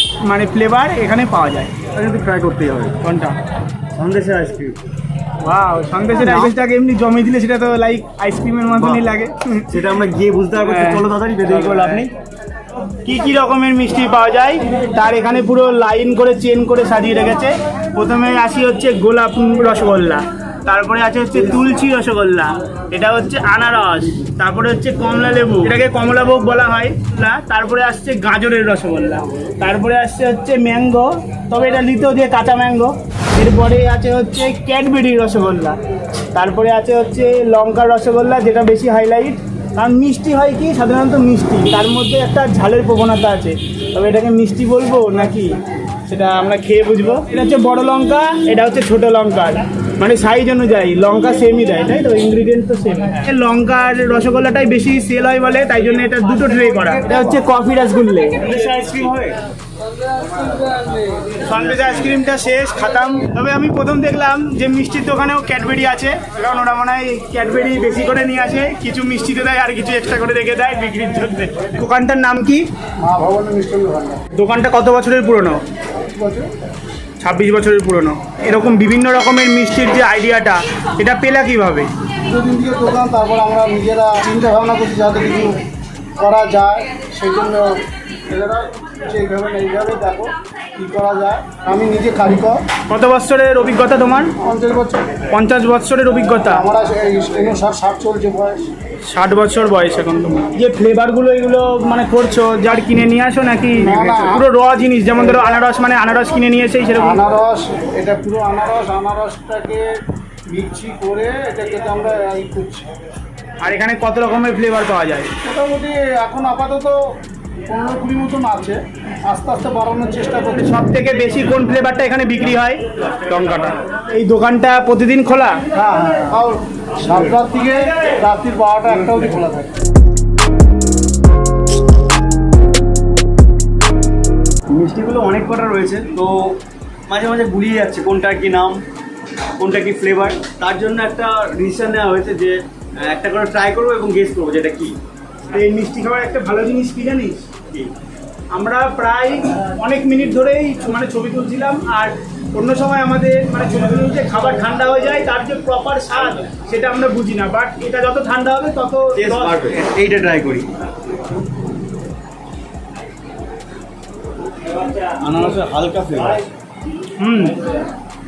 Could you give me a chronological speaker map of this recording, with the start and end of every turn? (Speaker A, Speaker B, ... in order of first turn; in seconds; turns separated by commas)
Speaker A: 0.2-1.7, Speaker B: 1.9-3.0, Speaker A: 3.0-3.4, Speaker B: 3.9-4.8, Speaker A: 5.4-9.8, Speaker B: 6.2-6.5, Speaker B: 8.8-9.1, Speaker B: 9.7-12.1, Speaker A: 10.6-12.1, Speaker A: 12.9-35.8, Speaker A: 36.3-58.5, Speaker C: 56.9-57.2, Speaker B: 58.4-59.4, Speaker C: 59.8-61.5, Speaker A: 61.4-72.7, Speaker B: 61.7-62.1, Speaker C: 73.0-74.2, Speaker A: 74.3-75.6, Speaker C: 76.1-76.5, Speaker A: 77.2-81.9, Speaker C: 82.3-85.6, Speaker C: 86.2-87.7, Speaker C: 88.3-92.6, Speaker A: 92.9-94.3, Speaker C: 94.4-95.2, Speaker A: 95.3-96.7, Speaker C: 96.4-98.7, Speaker A: 99.0-107.2, Speaker C: 103.8-104.5, Speaker C: 107.0-112.9, Speaker A: 113.6-115.3, Speaker C: 115.4-117.0, Speaker C: 117.7-120.8, Speaker A: 120.6-125.7, Speaker C: 125.7-129.7, Speaker B: 127.1-127.3, Speaker B: 134.7-138.8, Speaker B: 139.6-145.0, Speaker A: 145.5-147.5, Speaker A: 148.5-159.7, Speaker B: 159.2-160.7, Speaker B: 165.2-166.4, Speaker A: 167.2-167.6